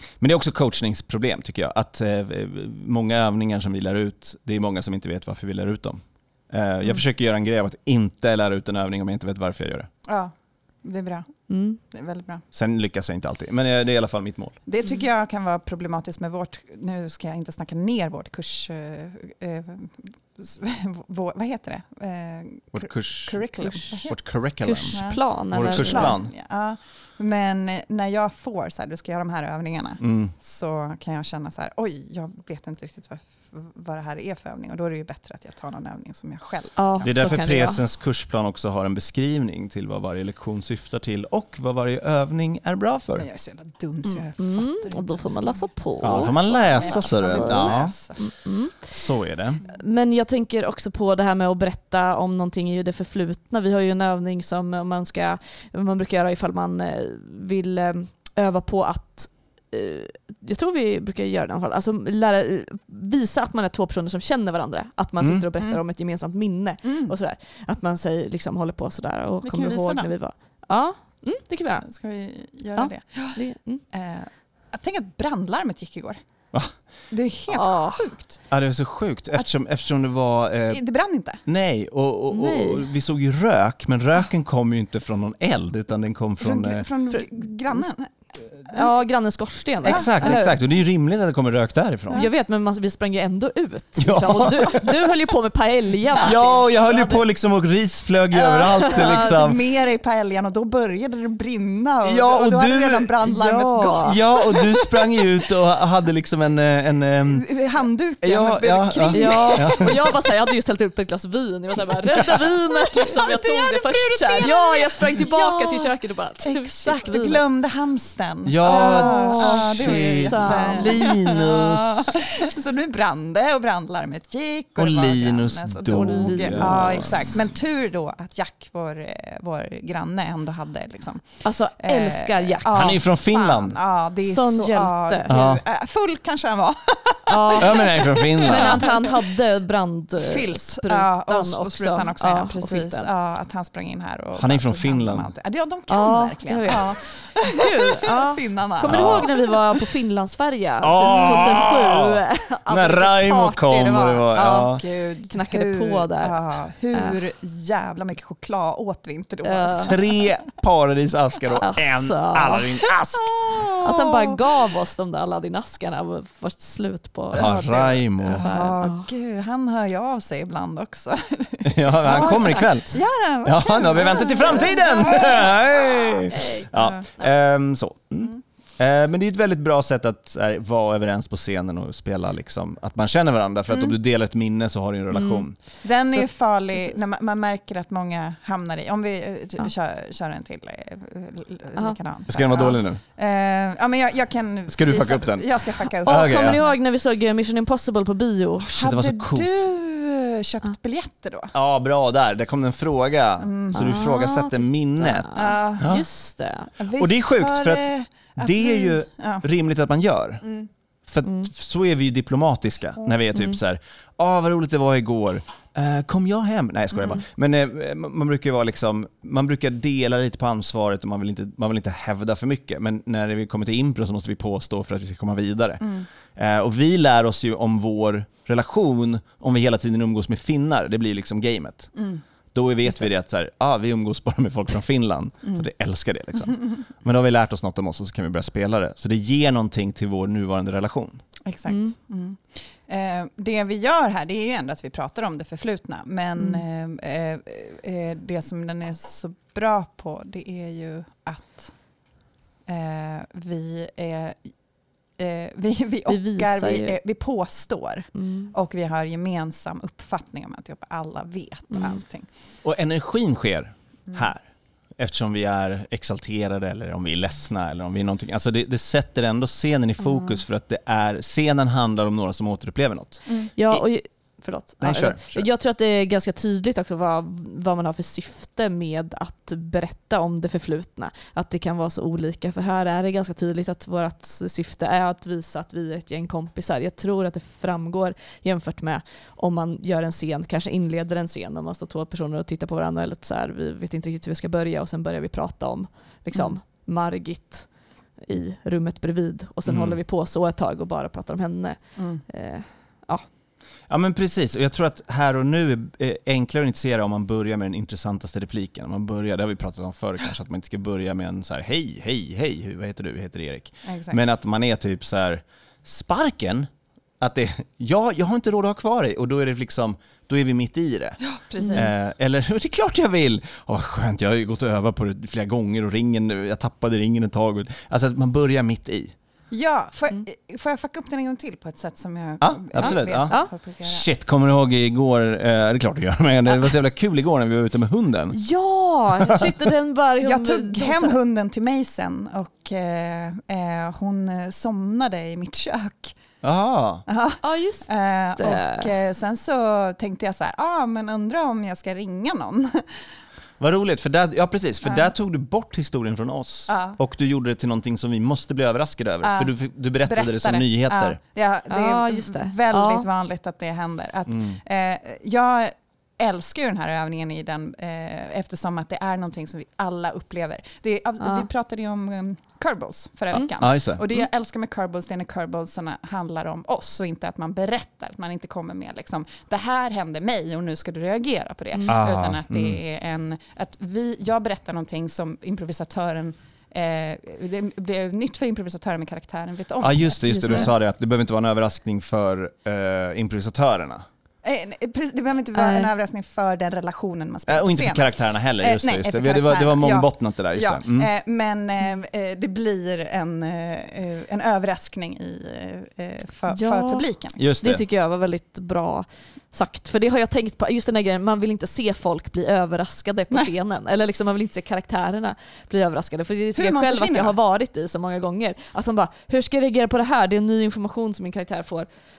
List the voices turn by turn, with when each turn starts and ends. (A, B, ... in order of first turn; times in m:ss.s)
0:00.2-0:09.9 A
0:10.0-0:11.3 B
0:11.5-0:11.8 C
0:11.9-0:12.4 B
0:12.5-0:14.6 A
0:14.7-0:24.2 B
0:22.7-0:23.4 A
0:23.6-0:24.1 C
0:24.1-0:26.3 A
0:24.6-0:26.2 C
0:24.9-0:37.4 B
0:30.0-0:30.3 A
0:36.8-0:37.8 C
0:37.0-0:43.3 A
0:43.2-0:48.3 B
0:44.0-0:48.9 C
0:46.0-0:48.0 A
0:48.9-0:49.6 A
0:49.6-1:11.9 C
1:05.2-1:05.5 A
1:06.8-1:07.2 B
1:09.4-1:10.1 B
1:11.8-1:13.4 B
1:12.8-1:13.8 C
1:13.9-1:16.2 B
1:17.1-1:18.4 B
1:17.5-1:18.1 C
1:18.5-1:20.8 A
1:20.7-1:21.4 B
1:21.5-1:26.9 A
1:22.3-1:22.9 C
1:26.4-1:28.1 B
1:27.1-1:27.9 C
1:28.7-1:30.6 C
1:29.8-1:30.5 B
1:29.8-1:32.3 A
1:32.1-1:37.2 C
1:34.0-1:34.9 A
1:36.2-1:39.6 A
1:38.3-1:39.5 C
1:38.9-1:44.9 B
1:42.0-1:43.4 A
1:43.4-1:44.2 C
1:44.0-1:47.5 A
1:47.3-1:49.9 B
1:48.2-1:50.2 A
1:49.1-1:57.4 C
1:52.2-2:19.3 B
1:58.4-2:02.2 A
1:58.6-2:01.1 C
2:04.8-2:07.4 A
2:05.9-2:07.4 C
2:11.4-2:12.8 C
2:12.7-2:13.8 A
2:14.2-2:15.3 C
2:15.3-2:15.6 A
2:17.3-2:17.8 C
2:17.6-2:18.9 A
2:18.4-2:23.1 C
2:20.2-2:29.9 B
2:24.4-2:25.3 A
2:25.9-2:37.2 C
2:28.8-2:29.3 A
2:30.8-2:34.8 A
2:31.0-2:31.5 B
2:34.7-2:40.5 B
2:39.4-2:39.9 C
2:39.8-2:44.2 A
2:41.6-2:42.8 C
2:43.2-2:43.8 B
2:43.8-2:49.1 C
2:47.3-2:48.5 A
2:47.3-2:55.6 B
2:51.6-2:52.9 A
2:52.0-2:53.0 C
2:53.4-3:05.6 A
2:54.1-2:55.3 C
2:56.3-2:57.3 C
2:56.8-2:57.0 B
3:03.7-3:04.0 B
3:05.1-3:05.5 C
3:05.8-3:16.8 B
3:06.1-3:07.0 C
3:12.3-3:13.0 A
3:14.7-3:16.6 A
3:16.0-3:18.8 C
3:18.6-3:19.6 A
3:18.7-3:21.5 B
3:21.5-3:26.1 A
3:23.4-3:23.9 B
3:23.7-3:26.7 C
3:25.4-3:25.9 B
3:26.8-3:29.4 B
3:27.0-3:30.4 A
3:30.4-3:30.7 B
3:31.1-3:51.9 A
3:31.2-3:31.5 C
3:36.9-3:37.2 B
3:45.8-3:46.1 B
3:52.0-3:52.2 B
3:52.5-4:01.2 A
4:01.4-4:11.7 B
4:01.7-4:02.0 C
4:06.4-4:06.7 C
4:12.7-4:14.5 B
4:15.2-4:22.3 B
4:16.1-4:17.0 C
4:18.1-4:18.5 C
4:21.7-4:22.0 C
4:22.6-4:24.4 A
4:25.0-4:33.8 A
4:30.0-4:30.4 C
4:33.3-4:33.5 B
4:33.6-4:57.7 C
4:34.8-4:35.5 A
4:58.2-5:03.2 C
4:59.7-5:00.0 A
5:02.0-5:02.2 B
5:03.9-5:16.7 A
5:13.8-5:14.2 B
5:17.2-5:21.2 A
5:21.2-5:21.9 B
5:21.6-5:22.0 C
5:21.7-5:29.1 A
5:29.5-5:34.1 B
5:32.4-5:38.4 A
5:32.8-5:33.5 C
5:38.3-5:41.2 C
5:40.2-5:46.2 B
5:46.4-5:47.0 A
5:47.1-5:53.0 B
5:47.4-5:48.9 C
5:53.6-6:01.2 A
5:54.8-5:55.2 B
5:56.7-5:57.0 B
5:59.2-6:30.7 B
6:01.7-6:03.1 C
6:04.3-6:04.6 A
6:11.2-6:11.5 C
6:13.3-6:14.0 A
6:21.7-6:22.0 C
6:21.9-6:22.8 A
6:29.8-6:34.0 A
6:30.2-6:30.7 C
6:34.4-6:47.5 B
6:35.6-6:35.9 C
6:37.5-6:41.1 A
6:46.5-6:47.1 C
6:47.4-6:47.8 A
6:47.6-7:01.9 C
6:56.6-6:57.4 B